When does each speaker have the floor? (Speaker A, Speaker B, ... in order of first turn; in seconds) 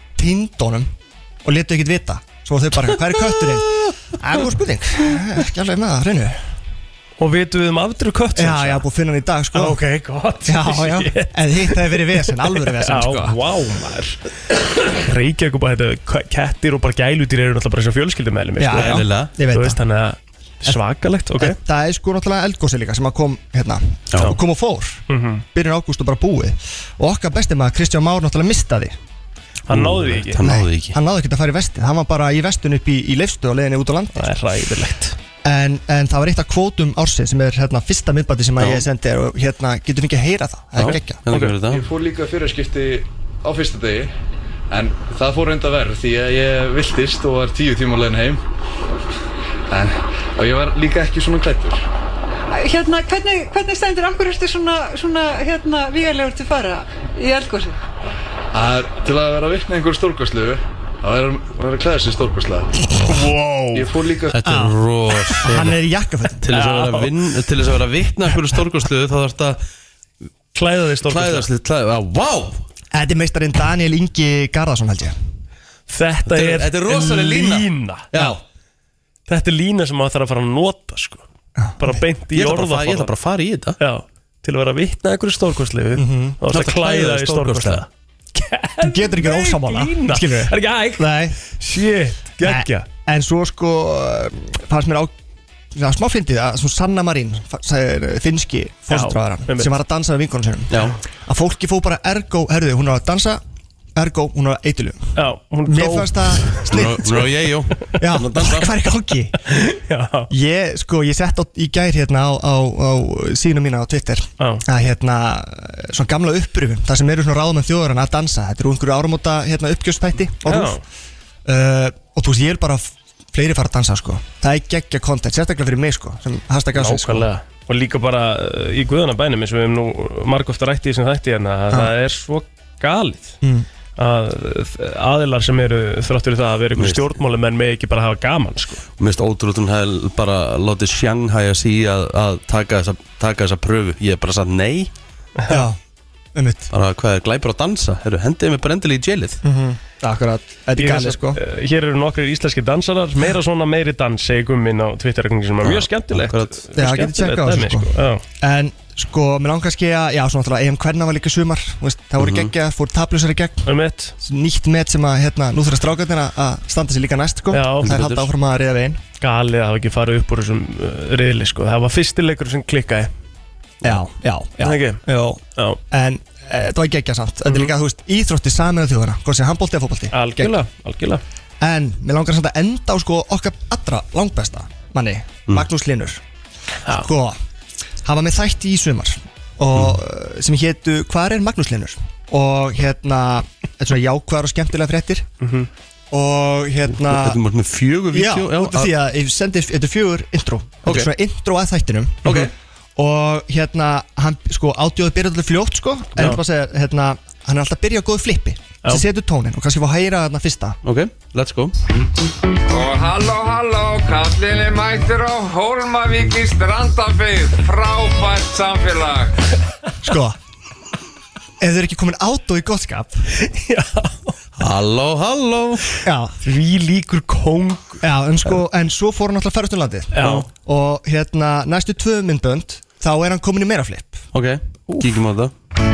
Speaker A: 0.1-0.9, 1.4-6.4, 8.3-9.8, 10.5-13.4, 18.6-19.8, 21.4-28.9, 30.4-34.3, 35.4-41.2, 64.4-64.8, 65.3-66.4, 72.9-75.1, 81.6-82.0, 86.0-86.4, 88.8-91.4, 92.4-95.1, 95.7-103.4, 103.9-105.1, 105.7-107.4, 108.0-109.4, 110.3-120.8, 121.5-127.3, 133.4-133.7, 145.5-145.8, 146.3-146.7, 149.4-151.4, 156.8-163.7, 164.2-169.0, 173.8-180.5, 181.6-186.2, 186.9-187.4, 188.0-195.3, 196.1-197.4, 198.1-210.8, 220.0-220.4, 221.6-223.2, 226.0-226.3, 228.0-234.2
Speaker B: 7.2-8.8, 9.5-11.9, 12.6-14.2, 14.8-19.0, 19.5-21.6, 25.1-25.4, 29.7-30.4, 34.1-35.1, 41.3-41.5, 63.0-63.9, 66.5-67.1, 70.5-71.5, 75.9-78.3, 79.3-81.2, 81.8-83.1, 83.8-92.9, 98.9-99.7, 105.2-106.7, 109.5-110.3, 114.4-114.6, 120.4-120.8, 126.8-133.4, 134.0-138.8, 150.8-158.2, 163.7-164.1, 167.5-167.9, 169.2-173.1, 174.6-175.0, 180.1-181.2, 195.4-195.7, 223.4-224.3, 226.4-228.5, 230.1-230.5
Speaker C: 18.7-19.3, 29.7-31.0, 38.6-38.9, 40.7-41.9, 64.3-65.8, 66.4-69.6, 71.0-72.6, 76.2-78.4, 82.3-83.8, 86.5-87.8, 100.7-101.0, 106.7-108.7, 136.7-137.2, 139.0-144.9, 146.7-149.4, 155.6-156.6, 162.2-162.5, 167.8-168.3, 196.9-198.9, 200.8-201.1, 202.2-202.5, 210.8-211.8, 224.6-225.8, 234.3-235.5
Speaker D: 41.7-44.1, 44.7-48.4, 49.7-51.8, 58.5-62.7, 63.7-64.4
Speaker E: 52.5-57.8
Speaker F: 212.7-219.3